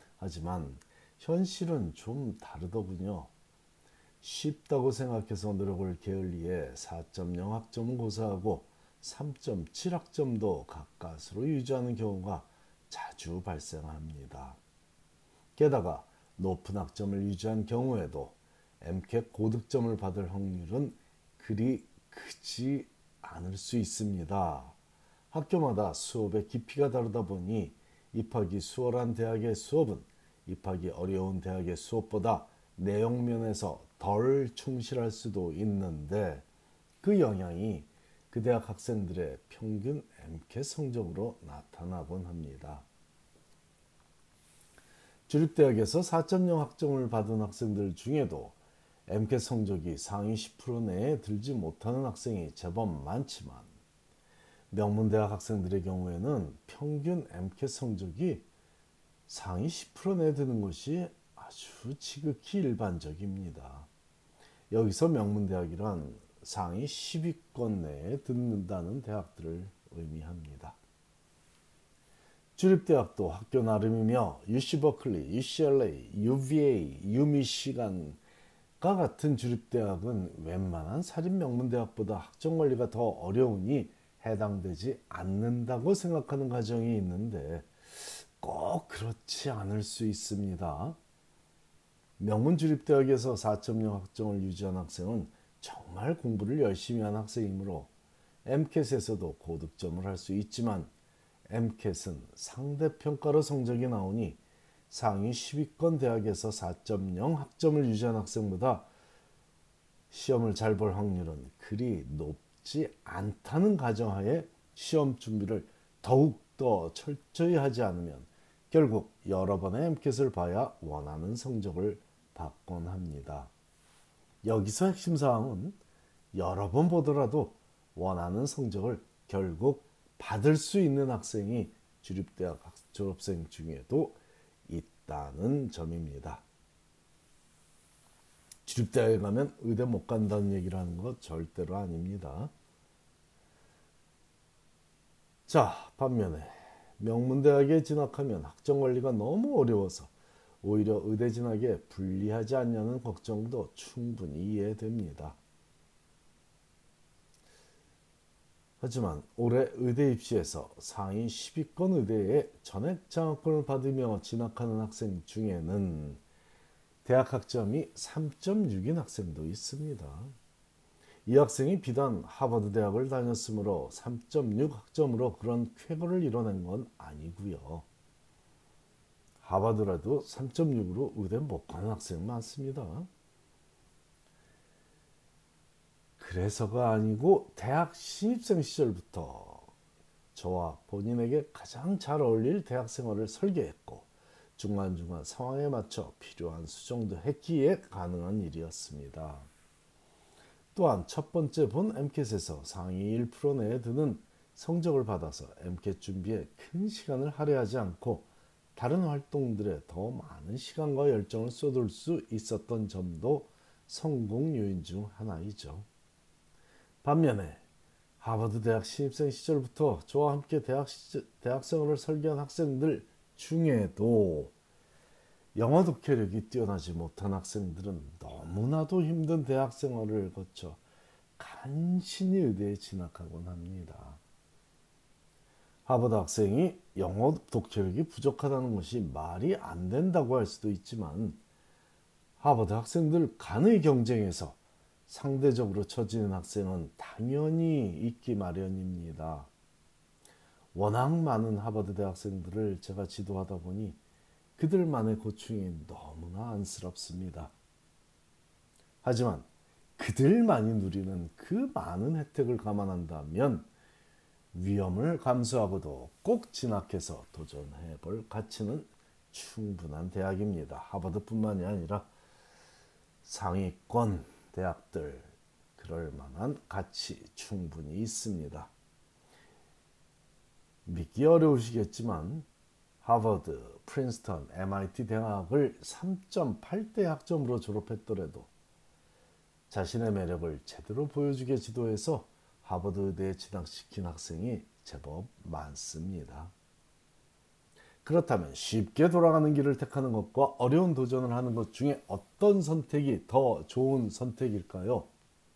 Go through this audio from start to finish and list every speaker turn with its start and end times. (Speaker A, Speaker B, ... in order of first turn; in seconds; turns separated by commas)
Speaker A: 0.2-3.3, Speaker A: 4.2-14.6, Speaker A: 15.6-24.8, Speaker A: 25.3-36.5, Speaker A: 37.0-42.9, Speaker A: 45.3-53.7, Speaker A: 54.7-58.5, Speaker A: 59.3-63.9, Speaker A: 64.7-70.8, Speaker A: 72.5-78.2, Speaker A: 78.8-91.0, Speaker A: 92.2-97.9, Speaker A: 98.4-100.9, Speaker A: 101.5-108.9, Speaker A: 110.1-123.5, Speaker A: 124.4-125.8, Speaker A: 126.3-136.4, Speaker A: 138.6-142.5, Speaker A: 145.5-155.4, Speaker A: 158.8-166.2, Speaker A: 167.0-170.3, Speaker A: 171.2-177.9, Speaker A: 179.4-183.1, Speaker A: 186.2-189.7, Speaker A: 190.3-199.5, Speaker A: 200.7-215.9, Speaker A: 217.0-217.6, Speaker A: 218.2-224.5, Speaker A: 225.5-230.8, Speaker A: 231.4-234.2, Speaker A: 235.8-241.4, Speaker A: 242.4-249.5, Speaker A: 250.7-254.0, Speaker A: 254.6-257.5, Speaker A: 259.0-263.7, Speaker A: 264.5-272.1, Speaker A: 273.2-278.7, Speaker A: 280.8-282.5, Speaker A: 283.0-288.5, Speaker A: 289.7-296.5, Speaker A: 298.0-305.1